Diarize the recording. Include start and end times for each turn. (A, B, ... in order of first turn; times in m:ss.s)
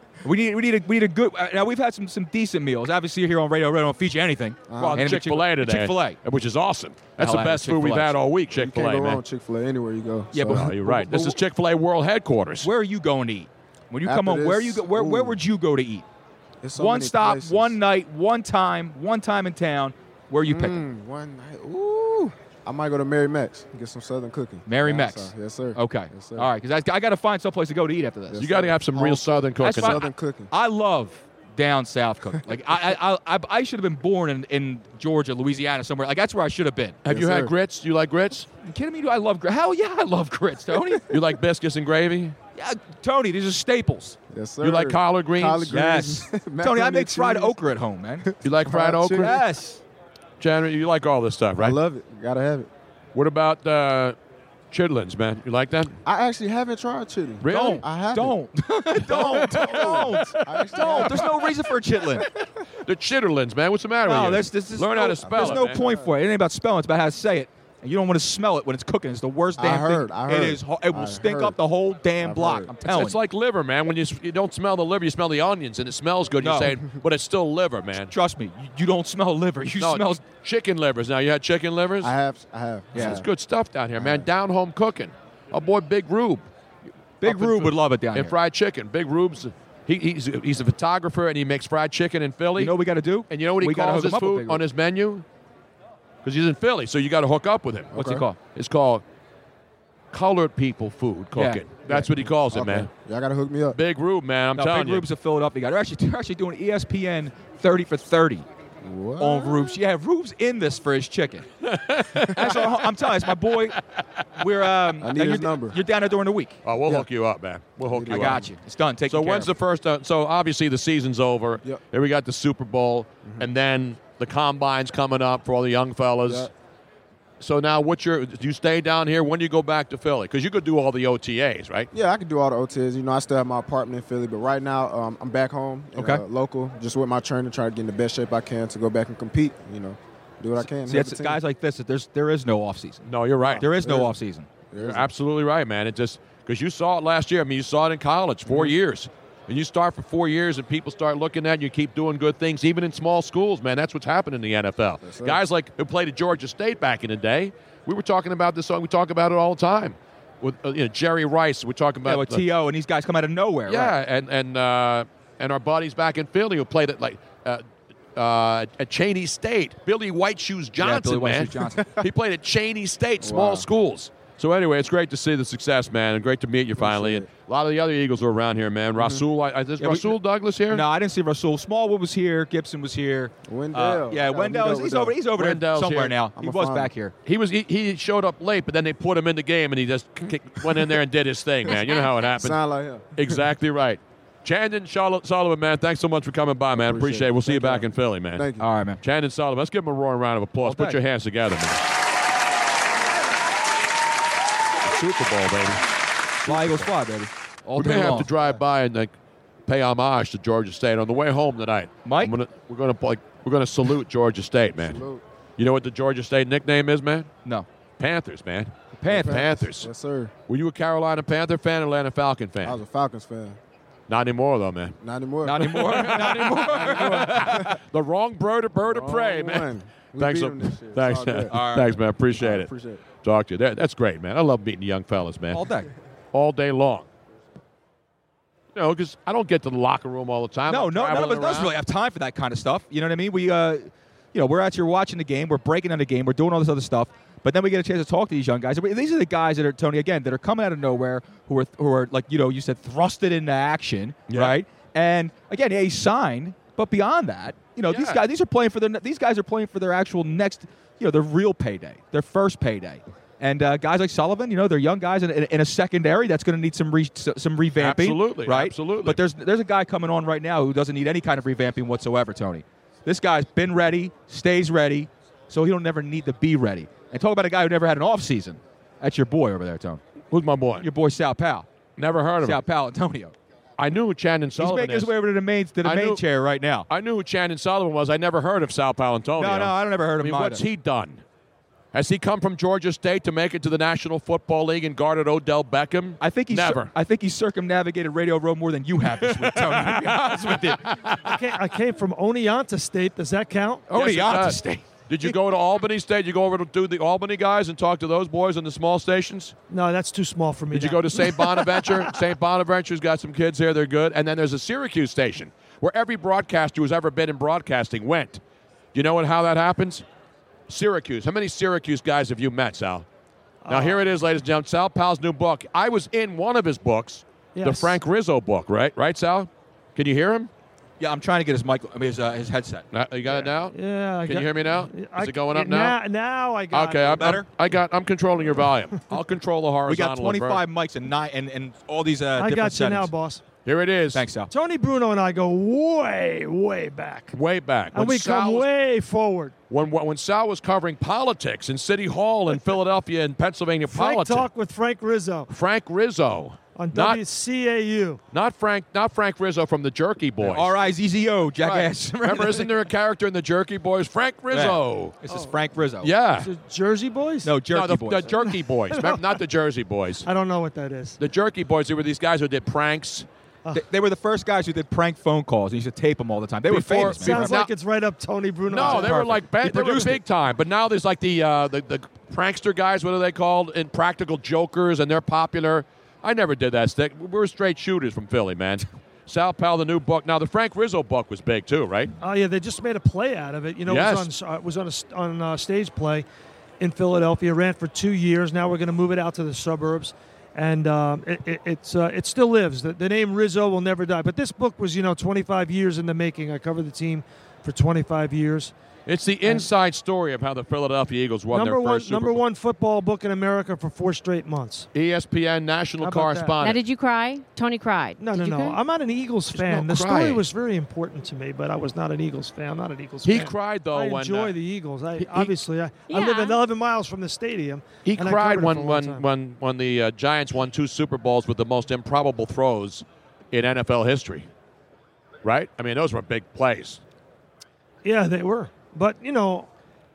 0:00.2-0:06.2 A
0:04.7-0:05.2 B
0:04.8-0:09.2 C
0:07.2-0:08.2 A
0:08.5-0:11.0 B
0:10.3-0:11.4 A
0:10.5-0:12.7 C
0:12.6-0:16.0 A
0:14.0-0:15.4 B
0:16.6-0:17.8 B
0:16.8-0:20.8 A
0:20.4-0:26.5 B
0:24.7-0:28.5 A
0:28.3-0:30.5 B
0:28.4-0:30.0 C
0:29.6-0:37.0 A
0:37.0-0:38.5 C
0:37.1-0:37.5 B
0:38.6-0:41.1 A
0:41.1-0:42.4 C
0:42.6-0:44.2 A
0:44.3-0:47.6 B
0:44.6-0:45.8 C
0:45.7-0:48.3 A
0:48.2-0:49.4 B
0:48.4-0:49.4 C
0:49.2-0:49.8 A
0:50.4-0:51.8 C
0:51.6-0:52.7 B
0:53.2-0:54.2 C
0:54.7-0:56.0 C
0:56.0-0:58.4 B
0:57.4-0:57.8 C
0:57.5-1:02.3 A
0:59.0-1:01.6 B
0:59.1-1:01.4 C
1:02.8-1:05.8 C
1:04.1-1:13.2 A
1:05.2-1:06.2 B
1:09.6-1:11.6 B
1:12.2-1:12.7 B
1:12.9-1:18.1 C
1:16.4-1:16.8 A
1:18.1-1:20.2 A
1:19.8-1:22.1 C
1:22.0-1:23.3 B
1:22.9-1:23.2 A
1:23.0-1:26.4 C
1:24.0-1:24.3 B
1:27.2-1:28.4 A
1:27.2-1:32.8 C
1:32.6-1:34.6 A
1:33.3-1:35.2 C
1:36.2-1:39.0 C
1:37.9-1:38.2 B
1:37.9-1:38.4 A
1:40.1-1:42.9 C
1:41.4-1:41.6 A
1:41.9-1:43.8 B
1:43.7-1:45.1 C
1:44.6-1:48.5 A
1:48.8-1:49.8 B
1:49.2-1:51.5 A
1:51.6-1:53.6 C
1:52.3-1:53.8 A
1:54.4-1:56.6 A
1:55.0-1:55.8 B
1:56.6-1:58.5 C
1:57.9-1:58.5 B
1:58.1-1:59.5 A
1:59.1-2:06.5 C
2:06.2-2:06.5 B
2:07.4-2:11.9 C
2:11.9-2:21.4 B
2:16.0-2:16.2 A
2:20.6-2:23.0 A
2:23.1-2:23.7 C
2:23.6-2:24.2 B
2:23.6-2:24.5 A
2:24.7-2:25.1 B
2:24.8-2:42.4 C
2:35.0-2:35.4 B
2:42.0-2:43.9 A
2:43.7-2:47.6 C
2:48.2-3:00.8 C
2:50.8-2:51.8 A
2:53.2-2:53.7 B
2:56.8-2:57.3 B
2:59.0-2:59.2 B
2:59.8-3:00.1 A
3:00.7-3:07.1 A
3:03.5-3:05.2 B
3:05.4-3:06.2 C
3:06.4-3:06.9 B
3:07.3-3:12.6 C
3:12.3-3:13.4 B
3:13.2-3:18.5 C
3:16.8-3:18.7 B
3:18.6-3:19.0 A
3:19.0-3:21.9 C
3:20.6-3:21.0 A
3:24.8-3:25.8 C
3:26.4-3:26.9 C
3:26.4-3:28.3 A
3:27.8-3:29.1 C
3:29.7-3:35.0 C
3:32.0-3:32.3 A
3:34.8-3:35.2 B
3:35.6-3:37.3 C
3:38.0-3:39.9 C
3:39.0-3:39.4 A
3:39.1-3:40.3 B
3:40.5-3:42.8 C
3:42.6-3:43.6 B
3:44.1-3:45.0 C
3:45.0-3:47.7 B
3:45.4-3:47.8 A
3:45.6-3:52.7 C
3:48.8-3:51.5 B
3:51.5-3:52.0 A
3:52.4-3:53.0 B
3:53.2-3:55.6 C
3:55.5-3:55.9 A
3:56.3-3:57.1 C
3:58.8-4:01.7 C
4:00.7-4:40.0 A
4:14.3-4:14.6 C
4:17.9-4:18.2 C
4:27.8-4:29.2 C
4:40.3-4:40.9 C
4:40.8-4:41.7 A
4:42.0-4:42.6 C
4:42.4-4:43.3 A
4:43.8-4:45.1 C
4:44.6-4:46.9 A
4:45.8-4:46.2 C
4:46.9-4:51.2 C
4:49.4-4:50.6 A
4:51.9-4:56.9 C
4:56.2-5:00.8 A
4:59.1-5:01.4 C
5:01.2-5:03.9 D
5:03.9-5:05.3 A
5:03.9-5:09.6 C
5:09.7-5:12.2 D
5:10.7-5:18.4 C
5:18.9-5:20.0 C
5:20.7-5:23.1 C
5:23.6-5:24.0 D
5:23.7-5:30.5 C
5:27.6-5:28.0 D
5:31.0-5:32.9 A
5:32.9-5:36.0 C
5:33.3-5:37.4 D
5:36.7-5:40.6 C
5:37.2-5:37.5 A
5:39.9-5:43.1 A
5:42.4-5:43.4 D
5:43.6-5:44.2 C
5:44.1-5:44.5 A
5:44.5-5:47.4 D
5:47.3-5:48.7 C
5:47.9-5:49.5 D
5:49.7-5:54.5 C
5:53.9-5:55.5 D
5:55.5-5:57.2 C
5:56.8-5:58.2 D
5:58.3-6:00.7 C
6:00.4-6:02.7 A
6:01.6-6:05.2 C
6:04.5-6:06.1 A
6:05.3-6:05.5 D
6:06.0-6:06.5 C
6:06.4-6:07.5 D
6:07.4-6:08.3 A
6:07.7-6:10.3 C
6:08.4-6:09.4 D
6:10.2-6:11.2 D
6:11.2-6:13.3 C
6:13.7-6:17.6 A
6:16.7-6:17.7 C
6:17.1-6:19.4 D
6:18.7-6:32.1 C
6:18.8-6:20.2 A
6:32.2-6:36.3 D
6:33.9-6:34.3 C
6:36.8-6:48.7 D
6:49.1-6:52.4 C
6:51.5-6:54.9 D
6:54.9-6:56.8 C
6:56.0-6:56.6 D
6:56.6-6:58.8 E
6:58.2-7:09.2 D
6:59.5-7:00.4 C
7:03.2-7:04.5 C
7:05.2-7:05.5 C
7:06.1-7:06.6 E
7:08.0-7:14.5 C
7:15.4-7:17.0 C
7:18.0-7:19.7 D